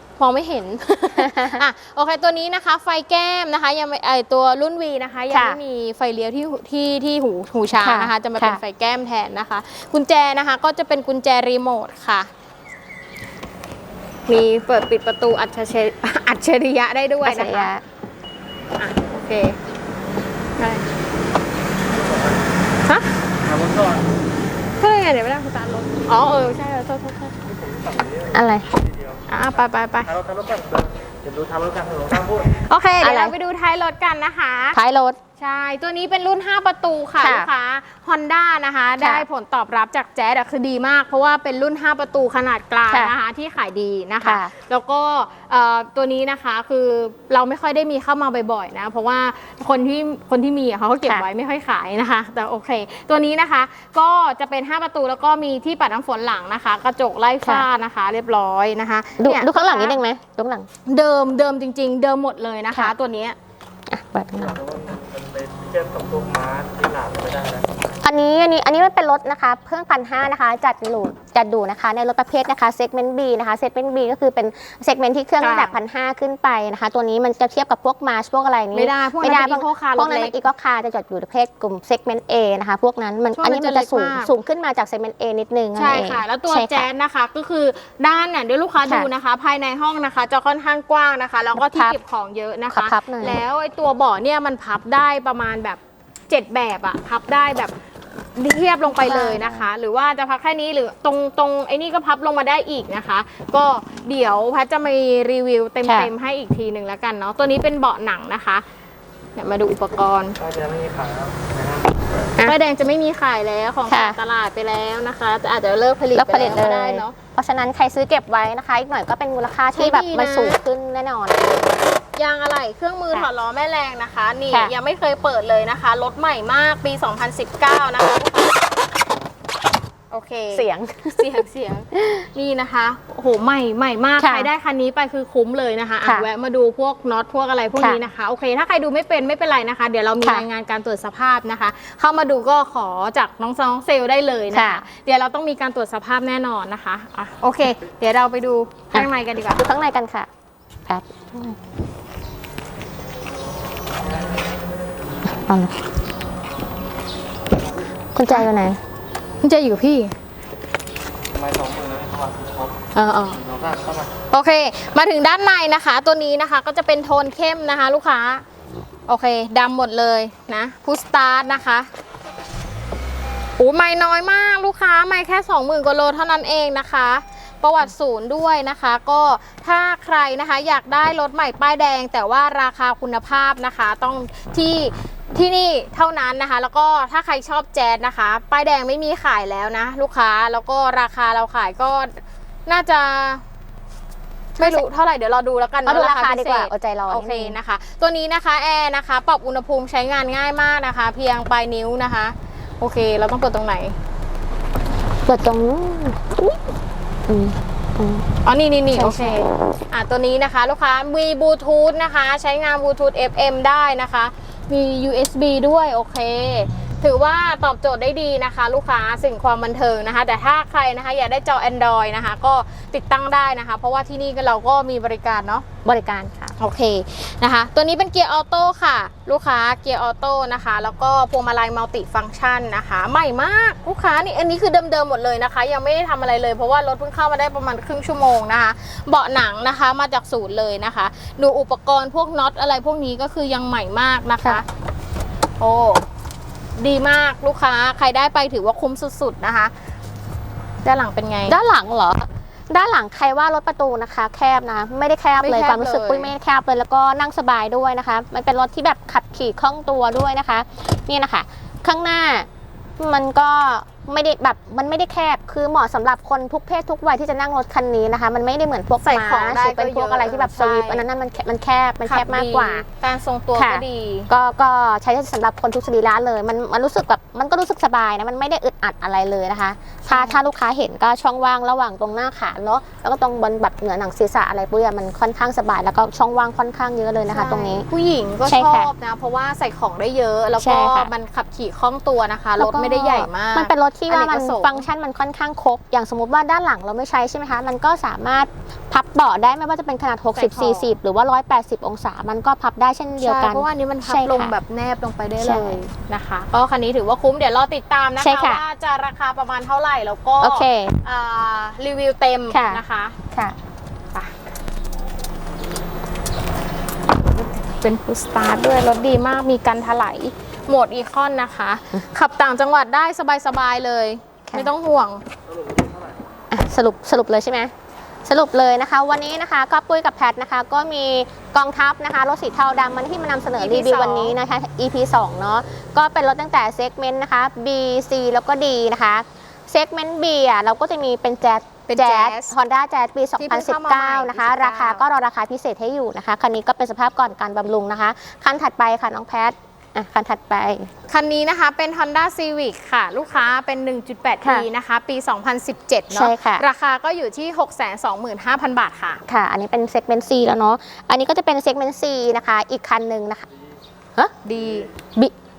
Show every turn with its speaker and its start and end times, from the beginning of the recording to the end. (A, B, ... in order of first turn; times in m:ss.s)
0:00.2-0:12.3 A
0:01.2-0:01.6 B
0:05.3-0:05.6 B
0:07.7-0:08.6 B
0:14.3-0:17.7 A
0:17.2-0:17.8 B
0:18.8-0:19.6 A
0:20.6-0:20.8 A
0:21.9-0:22.5 C
0:22.8-0:23.1 A
0:23.4-0:24.2 C
0:24.8-0:27.3 A
0:27.4-0:29.2 C
0:28.3-0:28.7 B
0:29.3-0:30.1 A
0:30.0-0:32.6 C
0:32.6-0:34.8 A
0:33.0-0:33.3 B
0:34.7-0:35.2 B
0:35.4-1:00.0 A
0:37.2-0:37.5 B
0:39.0-0:39.2 B
0:44.2-0:44.5 B
0:59.2-1:00.7 B
1:00.9-1:03.4 A
1:03.9-1:04.6 B
1:04.3-1:07.8 C
1:08.0-1:26.9 B
1:15.4-1:15.8 A
1:18.7-1:20.4 A
1:23.4-1:24.3 A
1:25.8-1:37.7 A
1:28.8-1:29.1 B
1:31.6-1:32.0 B
1:32.7-1:33.4 B
1:38.4-1:48.6 A
1:38.9-1:39.7 B
1:45.8-1:46.1 B
1:49.4-1:50.4 A
1:50.4-1:52.3 C
1:52.4-1:57.1 A
1:53.9-1:54.2 B
1:56.1-2:01.8 B
1:59.7-2:00.6 A
2:02.2-2:08.6 A
2:10.1-2:10.6 A
2:10.5-2:11.3 B
2:11.2-2:29.6 A
2:11.9-2:12.3 B
2:14.2-2:14.5 B
2:24.5-2:24.8 B
2:28.9-2:30.3 B
2:30.9-2:31.6 B
2:35.2-2:35.8 B
2:38.1-2:38.8 B
2:39.4-2:40.1 A
2:41.3-2:44.1 C
2:42.9-2:43.4 A
2:44.3-2:48.4 A
2:49.1-2:51.9 A
2:53.6-3:13.4 A
3:14.6-3:14.8 B
3:14.6-3:24.0 A
3:15.8-3:17.6 B
3:25.2-3:26.6 B
3:27.3-3:28.2 B
3:28.4-3:45.6 A
3:28.9-3:29.5 B
3:45.8-3:46.5 B
3:46.6-4:04.6 A
4:05.6-4:06.0 A
4:06.8-4:09.7 A
4:10.8-4:11.6 A
4:11.5-4:32.8 B
4:15.4-4:16.3 A
4:29.0-4:31.0 A
4:32.0-4:34.3 A
4:33.5-4:47.8 B
4:40.1-4:40.4 A
4:47.3-4:54.8 A
4:48.4-4:48.9 B
4:50.6-4:51.1 B
4:52.6-5:04.5 B
5:00.3-5:00.9 A
5:03.2-5:13.2 A
5:05.4-5:05.8 B
5:08.2-5:08.6 B
5:10.4-5:11.0 B
5:12.5-5:13.6 B
5:17.3-5:25.2 A
5:24.5-5:24.7 B
5:25.6-5:26.1 C
5:26.5-5:27.7 B
5:28.2-5:50.9 B
5:33.6-5:34.4 A
5:41.9-5:42.5 A
5:43.4-5:45.0 A
5:51.1-5:59.2 A
5:56.1-5:56.6 B
5:59.3-6:03.4 B
6:04.4-6:04.9 A